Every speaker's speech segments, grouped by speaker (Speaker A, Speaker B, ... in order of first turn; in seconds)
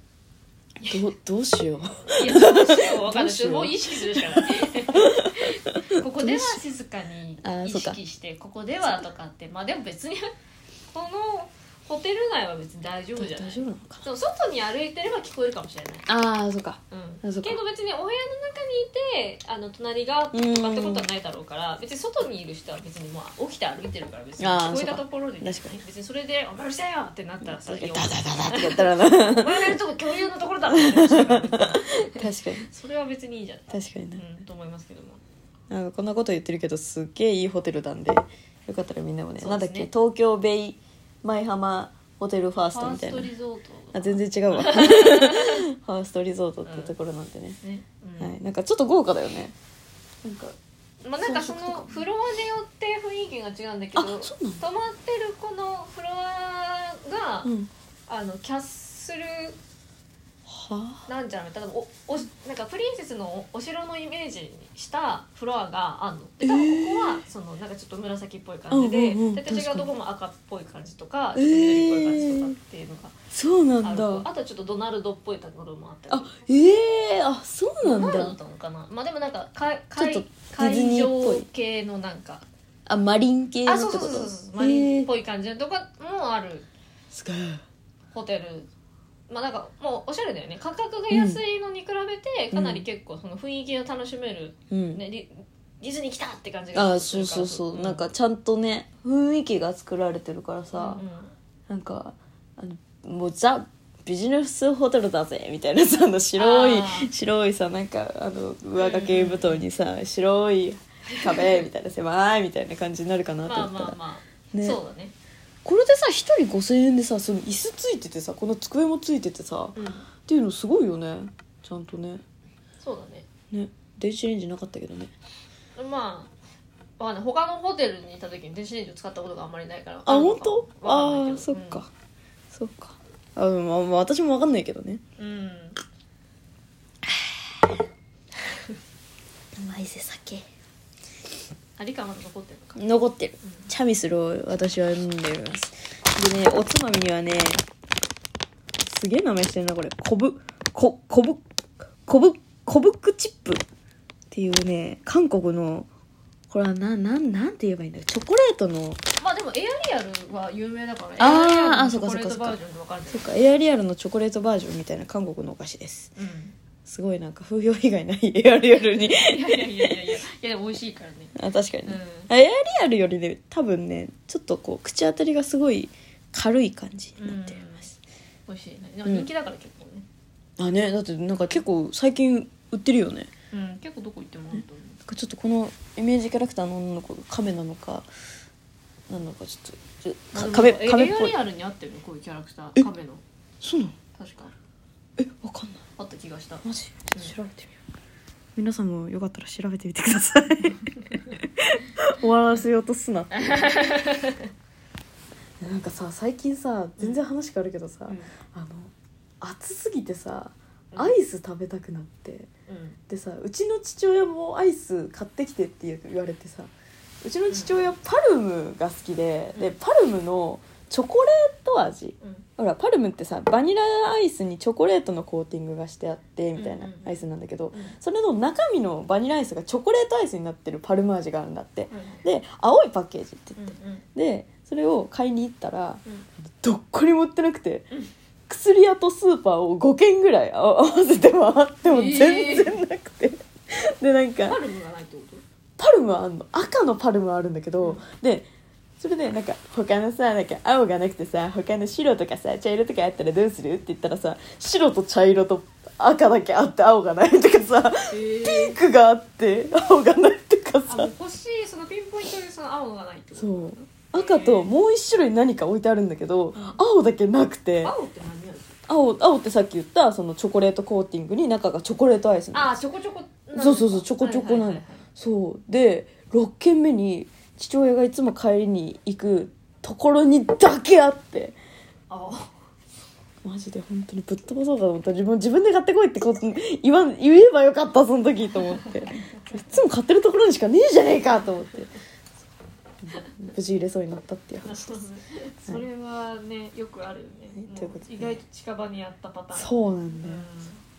Speaker A: 0.8-6.6, 7.4-8.0, 13.2-14.1, 16.1-17.6, 20.3-21.1, 24.4-25.8, 27.4-29.8, 30.7-32.7, 33.7-34.2, 35.7-43.3, 43.9-47.6, 48.2-49.5, 50.2-50.5, 51.2-52.0, 53.9-54.6, 57.4-57.7, 60.5-61.0, 66.4-67.2, 68.7-69.9, 71.3-72.5, 73.3-74.3, 76.1-78.4, 79.9-81.5, 82.9-85.1, 87.1-87.6, 91.1-91.4, 92.5-92.8, 94.7-95.0, 96.7-101.0, 101.7-114.0, 114.5-114.8, 115.6-122.2, 123.5-125.1, 130.1-131.9, 132.5-135.0, 139.6-140.4, 142.8-147.6, 148.8-151.4, 152.0-153.6, 154.3-155.9, 156.5-159.0, 161.2-162.6, 163.1-166.1, 166.8-170.0, 171.3-177.6, 180.6-183.3, 184.6-188.1, 189.1-191.3, 193.6-193.9, 195.2-195.8, 196.6-197.8, 198.6-203.6, 205.6-212.5, 213.1-216.7, 217.2-236.0, 236.6-237.9, 238.5-244.6, 245.8-248.5, 249.0-261.1, 263.4-267.9, 268.9-272.8, 273.5-281.6, 283.4-291.9, 293.0-295.0, 297.6-298.4, 299.5-300.5
Speaker B: 2.1-10.3, 10.9-16.1, 16.9-35.2, 39.4-39.9, 42.7-45.6, 46.6-46.9, 47.6-48.4, 51.0-57.5, 58.1-59.6, 61.1-73.1, 73.8-76.4, 77.8-82.5, 83.7-86.7, 88.1-88.7, 89.3-98.1, 100.7-101.3, 106.4-107.1, 108.8-109.7, 111.0-111.7, 113.4-115.1, 119.8-120.1, 122.8-123.2, 125.8-126.3, 127.0-131.8, 135.2-135.8, 138.4-138.8, 141.8-142.8, 143.4-143.7, 159.2-163.3, 166.2-166.5, 169.0-171.3, 171.8-172.3, 177.2-177.9, 178.5-180.1, 183.5-185.0, 190.3-193.2, 194.1-194.5, 196.0-197.4, 201.1-201.3, 203.3-204.5, 208.1-208.3, 212.7-213.0, 217.5-217.9, 222.2-222.4, 226.5-228.0, 231.9-232.2, 233.6-234.1, 241.8-242.8, 244.4-245.4, 258.1-258.8, 260.9-264.8, 267.8-268.8, 272.5-275.0, 282.1-282.6, 294.6-300.8